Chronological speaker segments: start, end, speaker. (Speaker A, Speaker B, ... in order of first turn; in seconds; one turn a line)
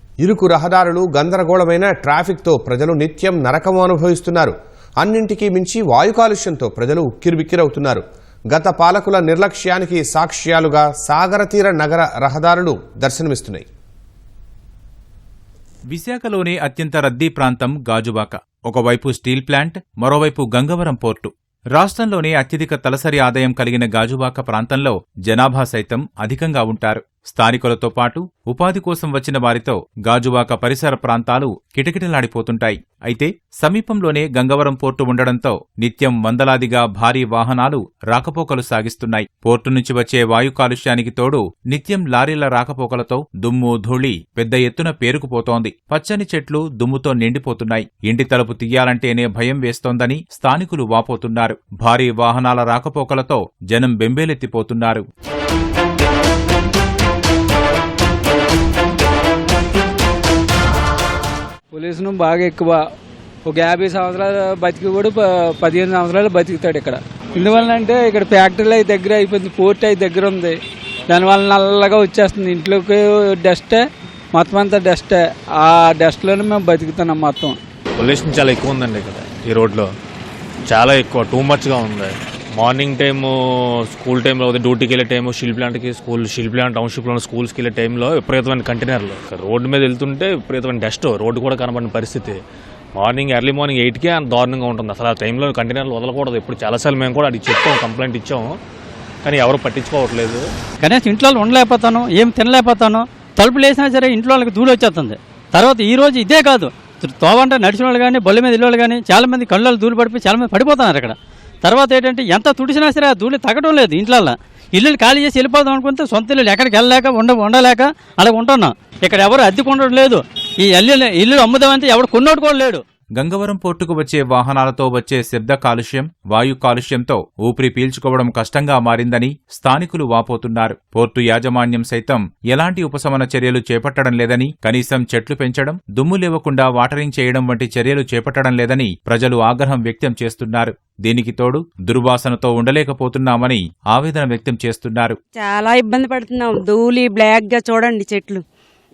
Speaker A: 0.2-13.7
Speaker B: 15.9-55.0
Speaker C: 61.7-62.8
Speaker C: 63.5-70.5
Speaker C: 71.1-73.8
Speaker C: 74.3-77.6
Speaker D: 78.0-79.9
Speaker D: 80.7-92.4
Speaker D: 93.0-98.5
Speaker D: 99.2-100.5
Speaker E: 100.8-122.8
Speaker B: 123.2-145.2
Speaker F: 145.3-148.4